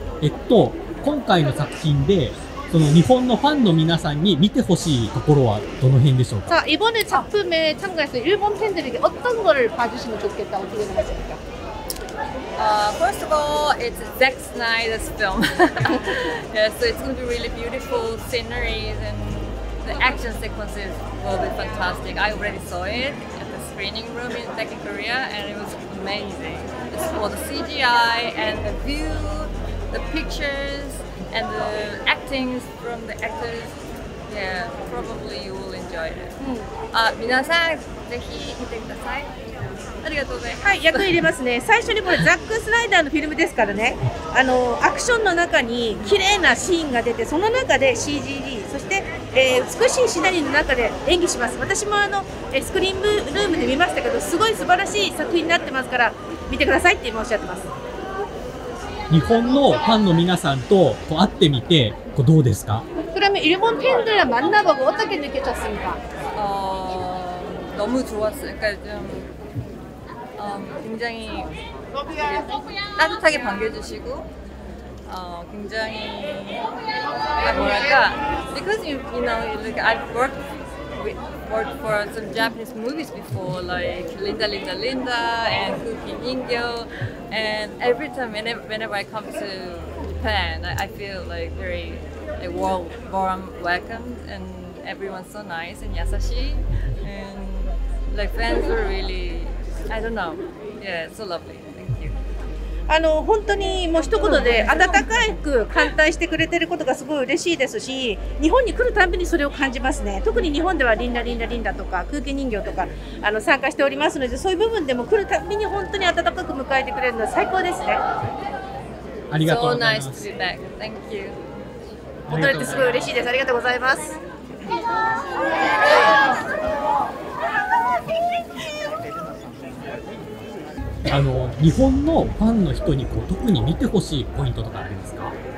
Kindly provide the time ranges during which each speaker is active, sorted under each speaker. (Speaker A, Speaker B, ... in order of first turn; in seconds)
Speaker A: 0.2-6.5, 59.1-62.9, 119.3-120.2, 122.3-123.1, 131.1-135.3
Speaker B: 6.5-11.3, 40.6-57.7, 63.1-66.0, 102.9-118.0, 122.3-124.2
Speaker C: 12.6-33.8, 34.3-36.3, 36.9-39.3, 40.0-41.1, 66.3-69.3, 70.4-71.5, 72.2-74.3, 75.1-76.7, 77.4-80.4, 81.0-102.2, 119.4-121.4, 122.6-122.9